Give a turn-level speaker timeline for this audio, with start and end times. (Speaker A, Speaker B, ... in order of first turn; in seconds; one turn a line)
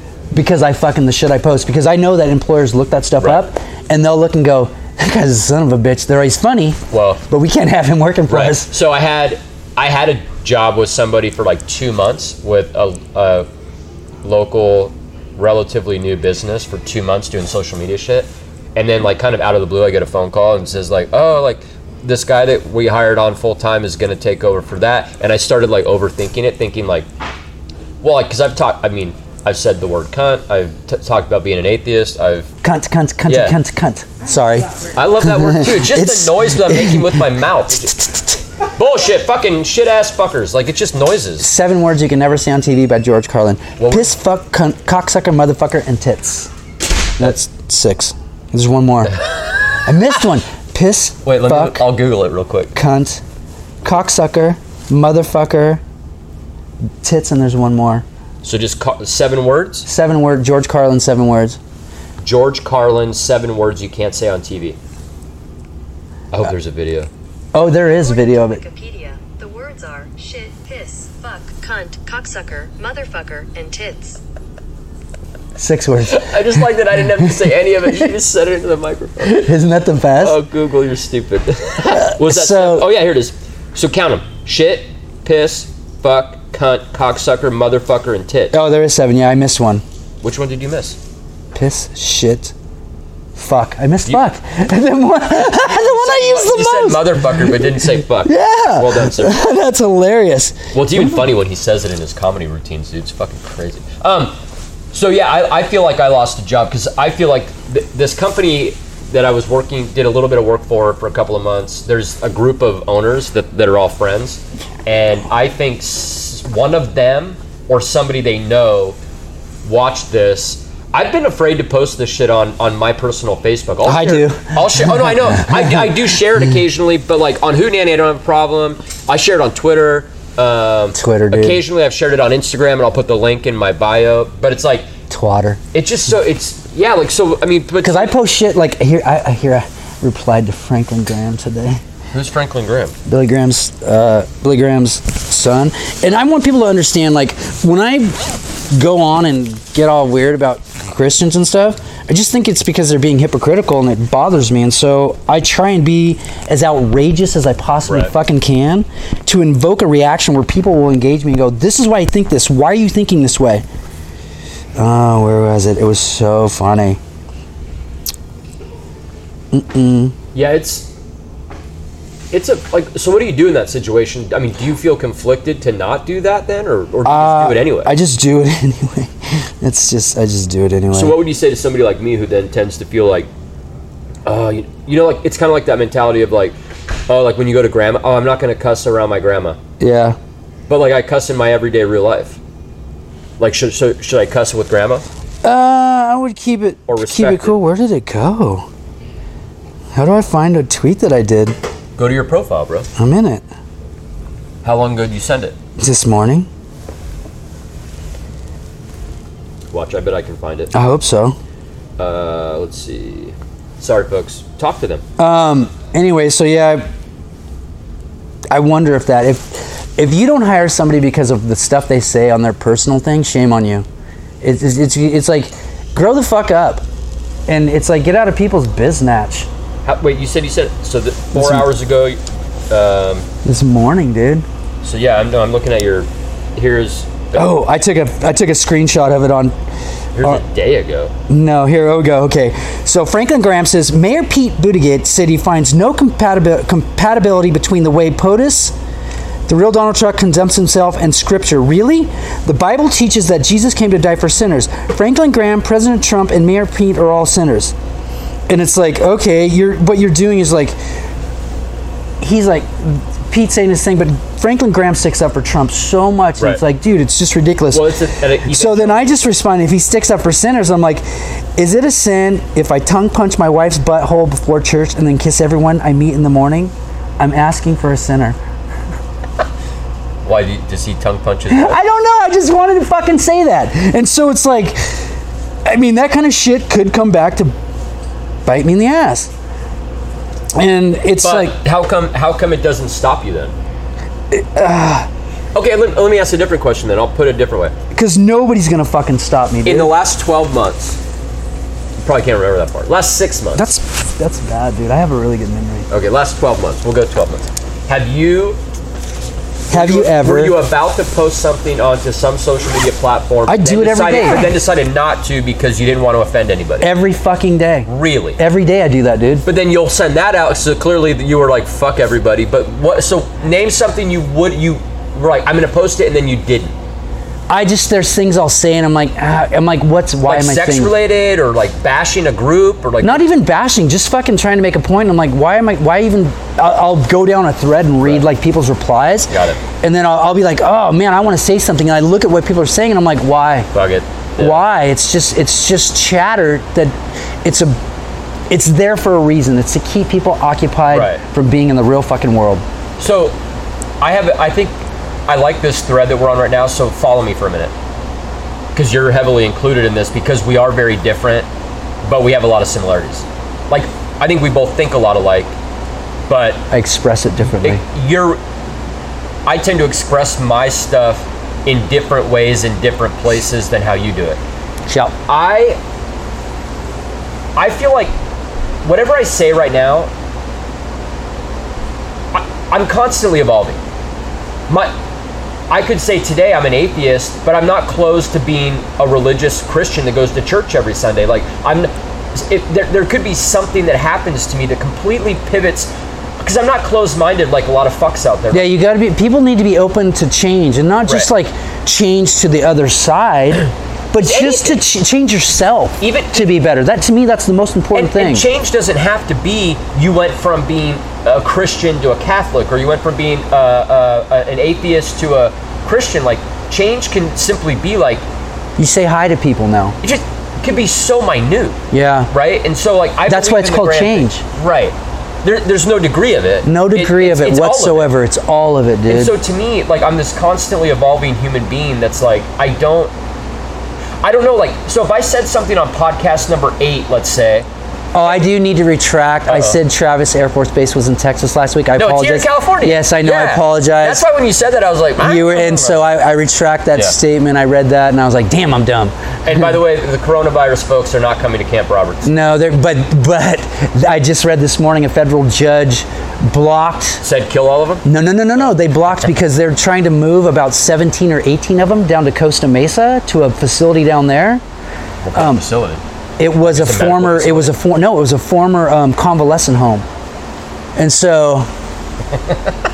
Speaker A: 0.3-8.7
Speaker B: 3.2-3.4
Speaker B: 6.9-7.2
Speaker B: 8.3-13.5
Speaker B: 14.2-27.1
Speaker B: 28.0-32.5
Speaker A: 32.6-37.2
Speaker B: 33.2-33.5
Speaker B: 34.9-38.0
Speaker A: 37.8-38.4
Speaker B: 38.8-41.5
Speaker A: 41.4-46.5
Speaker B: 43.8-44.1
Speaker A: 47.2-49.2
Speaker A: 49.8-51.9
Speaker B: 51.2-52.7
Speaker A: 52.7-53.2
Speaker A: 53.8-55.8
Speaker A: 57.0-58.0
Speaker B: 58.4-59.9
Speaker A: 59.9-61.6
Speaker B: 62.2-64.8
Speaker B: 66.3-67.1
Speaker A: 67.5-68.6
Speaker C: 67.5-74.2
Speaker A: 75.6-76.6
Speaker B: 76.0-79.5
Speaker A: 79.2-80.4
Speaker B: 80.2-88.6
Speaker A: 81.9-82.9
Speaker A: 88.5-89.8
Speaker B: 90.2-91.0
Speaker A: 91.5-92.5
Speaker A: 93.3-101.2
Speaker B: 95.3-99.4
Speaker B: 100.7-104.4
Speaker B: 104.9-119.0
Speaker B: 119.6-134.9
Speaker A: 123.8-126.0
Speaker A: 130.9-131.6
Speaker A: 135.1-135.6
Speaker B: 135.7-138.1
Speaker A: 137.8-141.8
Speaker B: 142.1-142.9
Speaker A: 143.1-163.6
Speaker B: 157.9-158.1
Speaker A: 164.8-167.0
Speaker A: 169.5-170.1
Speaker B: 170.3-170.9
Speaker B: 172.3-177.9
Speaker A: 177.0-181.2
Speaker B: 180.9-183.3
Speaker B: 184.2-186.5
Speaker B: 187.1-189.6
Speaker A: 189.8-190.2
Speaker B: 190.7-192.4
Speaker B: 193.4-195.1
Speaker A: 195.4-198.7
Speaker B: 196.9-197.6
Speaker A: 199.9-201.6
Speaker B: 202.0-202.9
Speaker A: 203.0-203.4
Speaker B: 204.6-205.6
Speaker A: 205.8-206.5
Speaker B: 209.7-210.7
Speaker A: 210.7-211.4
Speaker B: 212.0-215.0
Speaker A: 215.2-216.9
Speaker A: 218.5-223.8
Speaker A: 224.4-226.8
Speaker A: 227.5-229.5
Speaker B: 229.8-233.2
Speaker A: 231.3-231.7
Speaker A: 233.4-234.4
Speaker B: 234.8-237.6
Speaker A: 237.3-239.5
Speaker B: 240.1-241.1
Speaker A: 241.3-248.7
Speaker A: 249.5-257.7
Speaker A: 258.5-260.8
Speaker A: 262.2-267.9
Speaker B: 267.7-269.1
Speaker A: 268.4-278.4
Speaker B: 280.2-281.8
Speaker A: 281.5-285.1
Speaker A: 285.6-287.5
Speaker A: 288.4-289.3
Speaker A: 290.5-291.5
Speaker B: 291.2-293.5
Speaker A: 294.3-295.1
Speaker B: 295.5-297.7
Speaker A: 297.9-299.9
Speaker B: 299.6-301.0
Speaker B: 302.0-303.6
Speaker A: 303.5-305.9
Speaker B: 305.9-308.6
Speaker B: 309.7-316.9
Speaker A: 309.7-310.6
Speaker A: 313.4-314.5
Speaker A: 316.8-319.4
Speaker B: 317.9-318.4
Speaker B: 319.4-326.7
Speaker A: 327.5-330.9
Speaker B: 330.2-333.3
Speaker A: 333.0-343.7
Speaker B: 339.3-339.6
Speaker B: 343.7-344.6
Speaker A: 344.4-347.8
Speaker A: 348.5-352.6
Speaker B: 350.9-351.2
Speaker B: 353.0-353.4
Speaker B: 354.0-357.7
Speaker B: 358.7-361.5
Speaker B: 362.0-365.5
Speaker B: 366.3-366.6
Speaker A: 366.7-367.8
Speaker B: 367.6-368.4
Speaker B: 369.4-374.4
Speaker A: 374.9-375.1
Speaker B: 375.3-375.8
Speaker B: 377.6-378.1
Speaker B: 378.8-380.1
Speaker B: 382.3-383.8
Speaker B: 384.7-384.9
Speaker B: 385.7-398.7
Speaker A: 398.5-408.5
Speaker B: 404.2-404.8
Speaker B: 406.0-406.5
Speaker B: 407.9-418.2
Speaker A: 418.8-420.0
Speaker B: 420.0-421.8
Speaker A: 421.9-422.3
Speaker B: 422.3-428.1
Speaker A: 423.2-424.4
Speaker A: 426.6-429.3
Speaker B: 429.1-433.1
Speaker B: 434.2-437.7
Speaker A: 438.1-444.2
Speaker B: 439.4-439.8
Speaker B: 441.9-446.1
Speaker A: 445.2-449.1
Speaker B: 449.4-452.3
Speaker A: 452.2-457.2
Speaker B: 457.2-458.7
Speaker A: 458.0-464.6
Speaker B: 465.2-466.0
Speaker A: 465.3-465.6
Speaker A: 466.4-470.0
Speaker B: 466.6-467.8
Speaker A: 470.9-471.7